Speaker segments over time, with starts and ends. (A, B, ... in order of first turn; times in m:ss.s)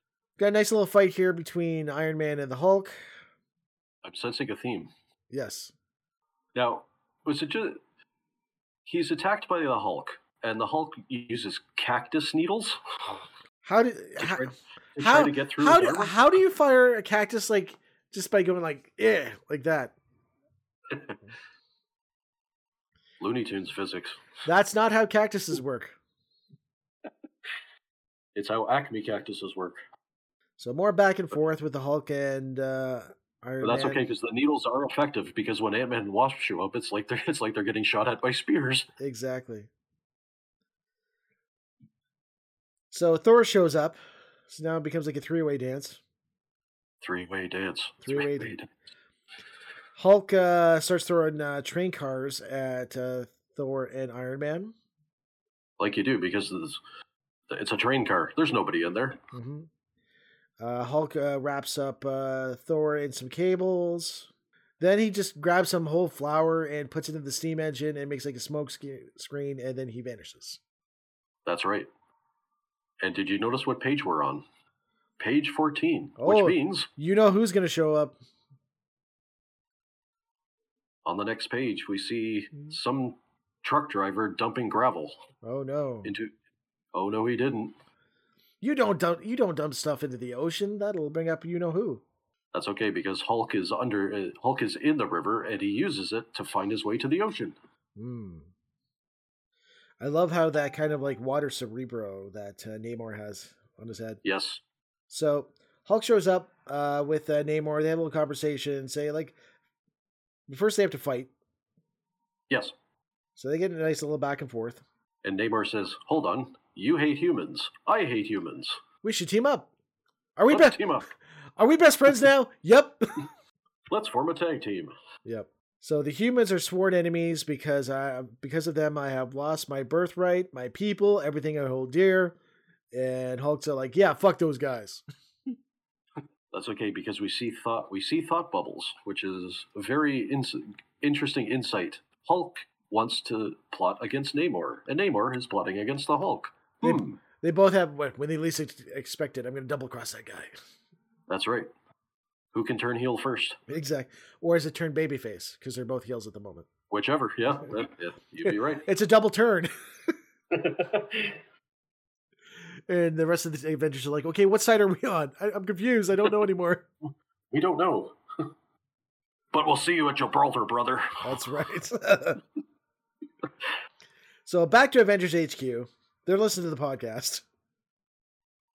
0:00.4-0:02.9 A
0:04.0-0:04.9 B
0:05.3-0:05.7 A
0:06.6-0:07.8 B
0:08.9-0:12.8 B
0:13.6-0:20.0 A
0:14.2-0:16.2 B
0:23.2-0:24.2 B
0:24.4-0:26.0 A
0:28.4-0:29.8 B
0:30.6-0:34.0 A
0:33.6-0:38.9 B
0:39.0-0:39.7 A
0:42.9-0:44.0 A
0:44.5-0:46.0 A
0:47.0-0:48.7 B
0:48.0-0:48.5 A
0:50.0-0:54.8 A
0:55.8-0:56.8 B
0:57.5-0:59.2 B
0:59.3-0:59.7 A
1:00.6-1:04.3 A
1:04.8-1:10.6 A
1:11.5-1:11.9 B
1:13.0-1:14.4 B
1:15.2-1:16.9 B
1:16.2-1:18.2 A
1:21.1-1:25.2 B
1:25.4-1:26.1 A
1:26.0-1:26.3 B
1:26.9-1:27.8 B
1:28.6-1:32.0 A
1:32.5-1:37.6 B
1:38.0-1:38.5 A
1:40.0-1:44.2 A
1:44.2-1:44.6 B
1:45.1-1:49.4 A
1:50.5-1:51.3 A
1:53.4-1:54.8 A
1:55.2-1:58.8 B
1:59.0-1:59.7 A
2:00.4-2:00.8 A
2:00.5-2:01.1 B
2:01.6-2:03.3 A
2:03.9-2:04.9 B
2:05.2-2:12.4 A
2:12.9-2:15.0 A
2:16.5-2:27.2 B
2:26.8-2:30.5 A
2:31.3-2:31.7 B
2:32.5-2:33.6 B
2:33.7-2:36.7 A
2:36.9-2:38.8 B
2:38.4-2:39.7 A
2:40.5-2:41.4 B
2:42.9-2:46.9 A
2:47.5-2:48.2 B
2:49.5-2:51.2 B
2:51.2-2:52.4 A
2:54.4-2:57.4 A